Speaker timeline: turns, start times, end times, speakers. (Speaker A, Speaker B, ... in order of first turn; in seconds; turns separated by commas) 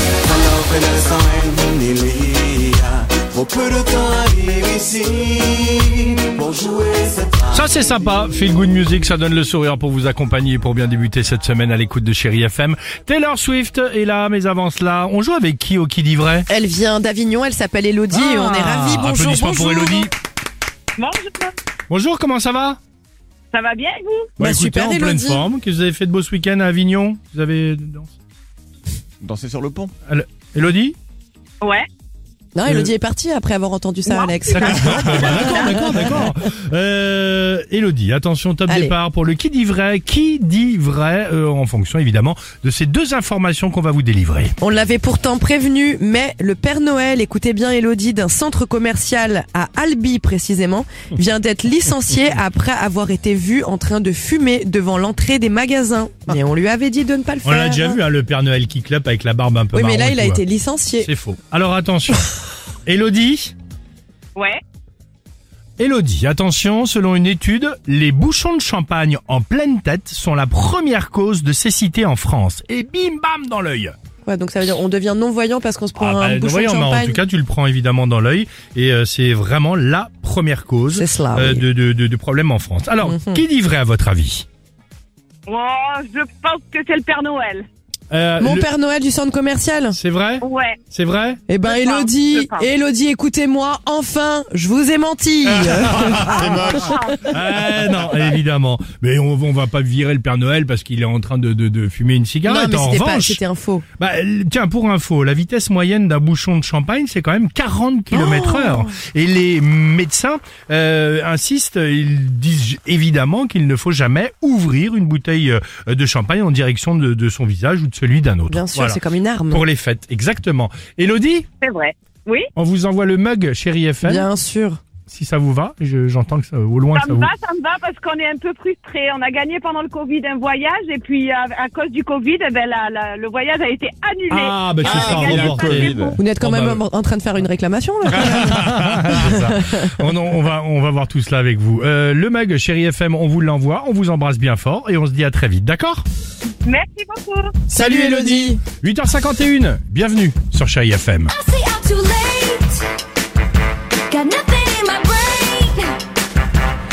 Speaker A: 0.2-7.6, Speaker B: 7.5-16.5, Speaker C: 16.5-20.1, Speaker B: 18.1-20.1, Speaker D: 21.0-21.5, Speaker B: 21.9-22.8, Speaker D: 23.5-24.3, Speaker B: 24.4-28.1, Speaker C: 24.4-25.4, Speaker A: 29.2-29.9, Speaker B: 30.1-30.9, Speaker D: 31.6-31.9, Speaker C: 32.5-36.2, Speaker B: 32.6-32.9, Speaker D: 34.1-35.9, Speaker B: 34.5-44.5, Speaker C: 38.7-38.9, Speaker C: 44.6-58.0, Speaker B: 57.4-60.4, Speaker C: 59.7-61.1, Speaker B: 61.0-62.3, Speaker B: 62.9-63.5, Speaker B: 65.8-73.9, Speaker C: 74.2-77.2, Speaker B: 76.0-84.5, Speaker C: 80.9-81.7, Speaker C: 83.0-83.4, Speaker D: 85.5-87.7, Speaker B: 88.1-88.7, Speaker C: 88.4-90.0, Speaker B: 89.9-91.4, Speaker D: 90.4-90.8, Speaker C: 91.5-96.7, Speaker D: 91.6-92.7, Speaker B: 95.6-103.4, Speaker D: 96.4-97.3, Speaker C: 102.5-103.8, Speaker B: 104.0-119.0, Speaker C: 108.1-109.0, Speaker C: 118.5-119.6, Speaker B: 119.5-121.5, Speaker D: 121.6-122.5, Speaker B: 122.5-124.2, Speaker C: 124.0-124.8, Speaker B: 125.1-127.3, Speaker D: 127.0-136.2, Speaker B: 134.3-136.8, Speaker A: 134.8-136.2, Speaker C: 136.2-139.8, Speaker B: 138.1-146.0, Speaker D: 146.6-147.5, Speaker B: 147.7-151.3, Speaker C: 147.7-148.6, Speaker E: 151.3-152.8, Speaker E: 154.1-156.0